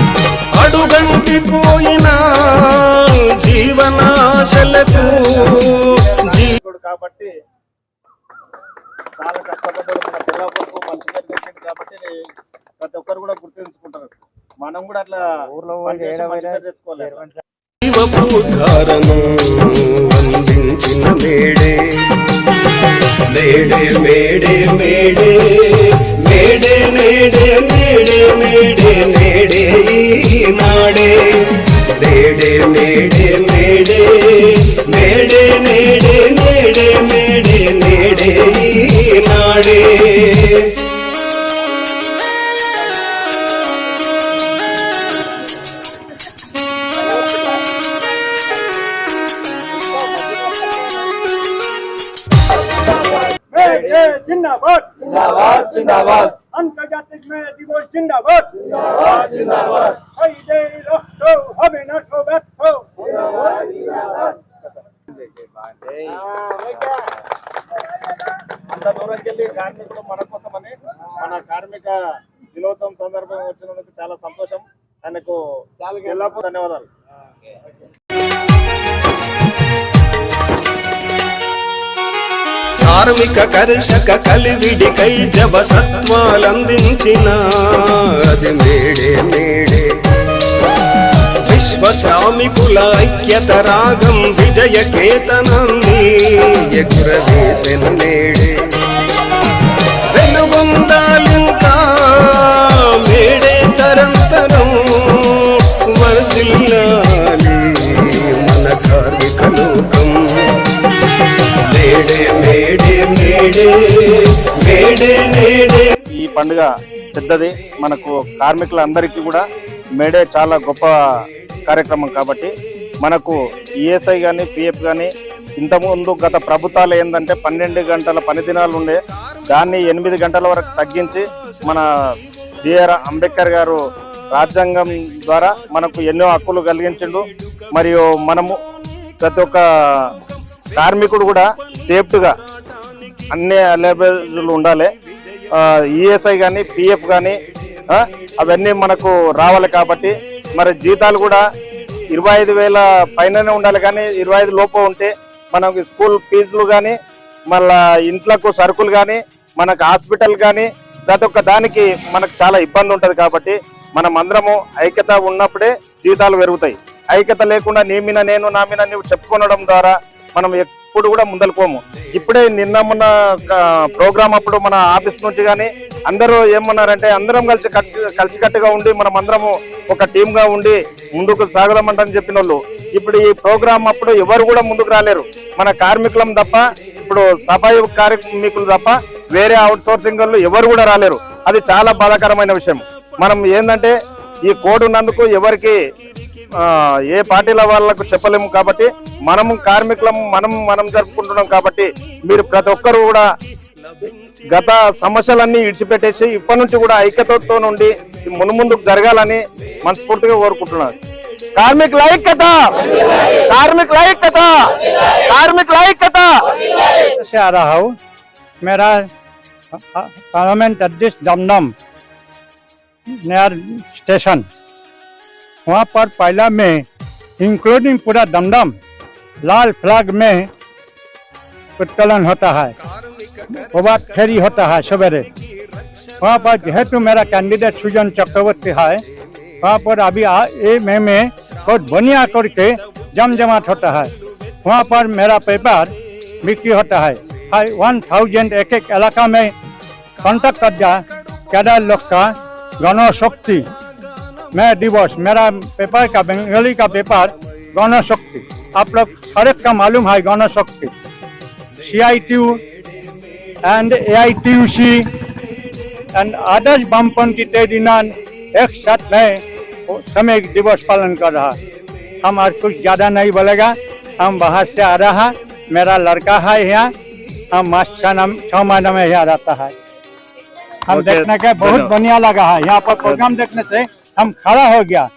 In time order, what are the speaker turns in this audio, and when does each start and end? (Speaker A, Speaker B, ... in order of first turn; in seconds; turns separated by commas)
Speaker A: 0.6-6.5, Speaker B: 5.9-7.3, Speaker B: 9.2-12.1, Speaker B: 12.8-17.3, Speaker A: 17.8-22.1, Speaker A: 23.3-40.7, Speaker C: 53.2-64.3, Speaker B: 65.6-66.9, Speaker B: 68.7-72.0, Speaker B: 72.5-76.9, Speaker A: 82.8-90.0, Speaker A: 91.4-98.8, Speaker A: 100.1-110.6, Speaker A: 111.6-115.9, Speaker B: 116.2-119.4, Speaker B: 120.0-120.9, Speaker B: 121.7-131.9, Speaker B: 132.7-133.8, Speaker B: 134.3-138.6, Speaker B: 139.2-140.1, Speaker B: 140.7-142.3, Speaker B: 143.3-144.9, Speaker B: 145.6-147.4, Speaker B: 147.9-151.4, Speaker B: 152.1-157.0, Speaker B: 157.5-195.8, Speaker B: 196.6-203.3, Speaker A: 203.8-204.4, Speaker B: 204.5-211.0, Speaker B: 211.6-216.3, Speaker C: 217.1-217.9, Speaker C: 218.6-219.1, Speaker C: 219.7-221.7, Speaker C: 223.2-224.5, Speaker C: 225.7-226.9, Speaker C: 227.4-228.8, Speaker C: 229.4-230.5, Speaker C: 231.8-232.8, Speaker A: 232.8-234.7, Speaker C: 233.6-235.3, Speaker A: 235.8-236.7, Speaker C: 236.2-239.0, Speaker C: 239.6-244.1, Speaker C: 244.7-245.9, Speaker C: 246.4-249.5, Speaker C: 250.2-253.7, Speaker C: 254.5-260.9, Speaker C: 261.8-262.6, Speaker C: 263.6-265.1, Speaker C: 266.1-271.6, Speaker C: 272.2-276.9, Speaker C: 277.5-279.7, Speaker B: 280.9-281.9, Speaker C: 280.9-285.1